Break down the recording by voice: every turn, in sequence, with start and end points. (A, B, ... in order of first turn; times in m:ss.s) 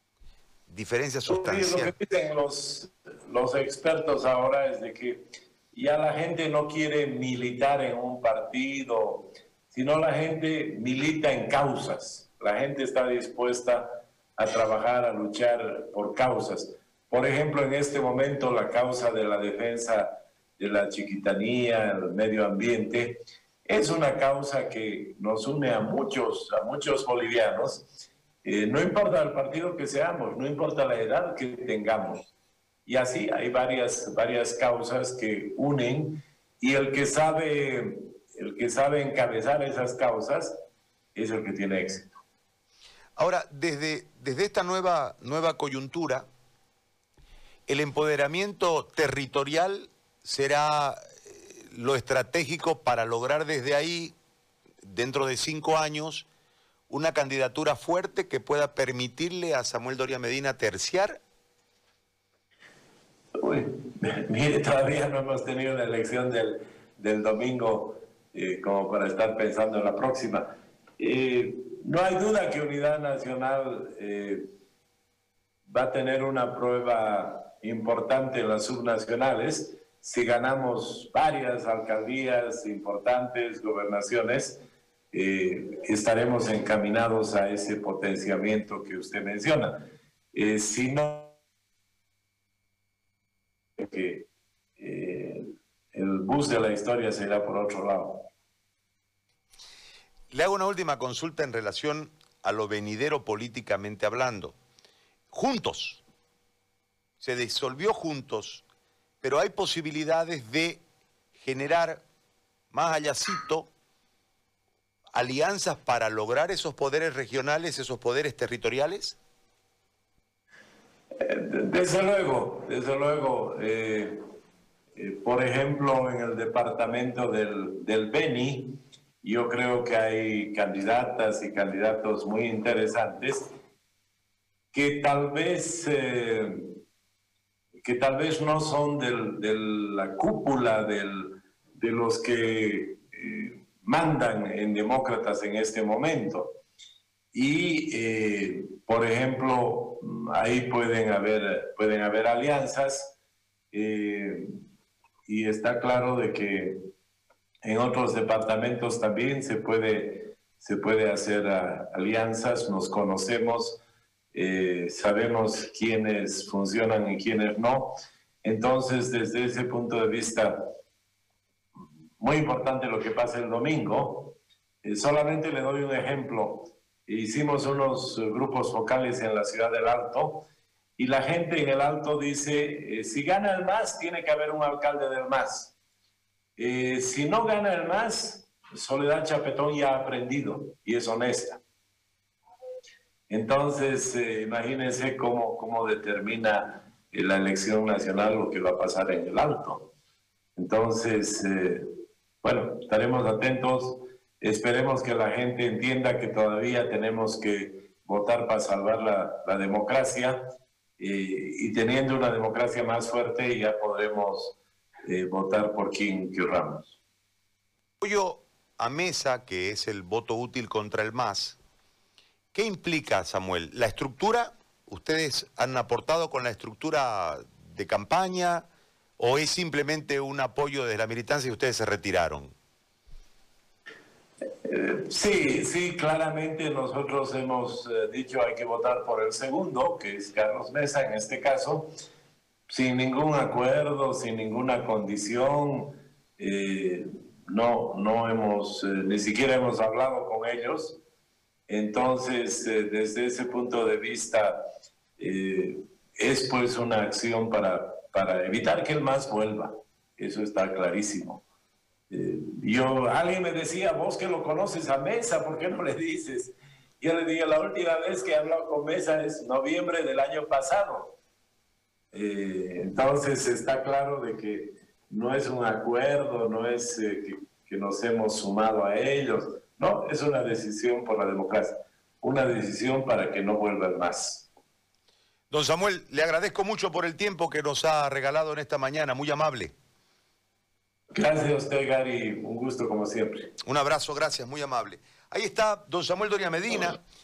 0:00.7-0:01.9 A
0:01.3-0:13.8 B
0:14.4-0:27.9 B
0:28.4-0:32.3 B
0:32.9-0:40.6 B
0:41.2-0:42.2 B
0:43.2-0:46.3 A
0:47.7-0:54.2 A
0:54.8-0:56.3 A
0:56.9-1:01.2 A
1:03.4-1:14.5 B
1:15.7-1:24.6 B
1:25.1-1:31.4 B
1:33.8-1:34.3 B
1:34.8-1:38.3 B
1:40.3-1:44.6 A
1:45.3-1:46.0 A
1:47.2-1:48.6 A
1:49.2-1:50.8 A
1:51.4-1:52.0 A
1:52.7-1:53.7 A
1:55.1-1:59.2 A
2:01.2-2:04.2 B
2:05.0-2:13.5 B
2:14.7-2:16.8 B
2:17.8-2:26.5 B
2:27.3-2:33.2 B
2:33.7-2:34.5 B
2:35.3-2:36.8 B
2:37.6-2:43.8 B
2:44.3-2:50.6 B
2:52.2-3:00.4 B
3:01.0-3:05.8 B
3:06.6-3:11.6 B
3:13.3-3:19.9 B
3:20.6-3:21.9 B
3:22.4-3:30.4 B
3:31.0-3:37.0 B
3:38.0-3:41.6 A
3:42.5-3:48.6 A
3:49.2-3:52.5 A
3:54.6-4:01.9 B
4:02.7-4:11.0 B
4:11.7-4:14.6 B
4:15.2-4:21.4 B
4:22.1-4:31.2 B
4:32.1-4:44.5 B
4:45.5-4:49.8 A
4:51.1-4:53.5 B
4:53.6-4:57.0 A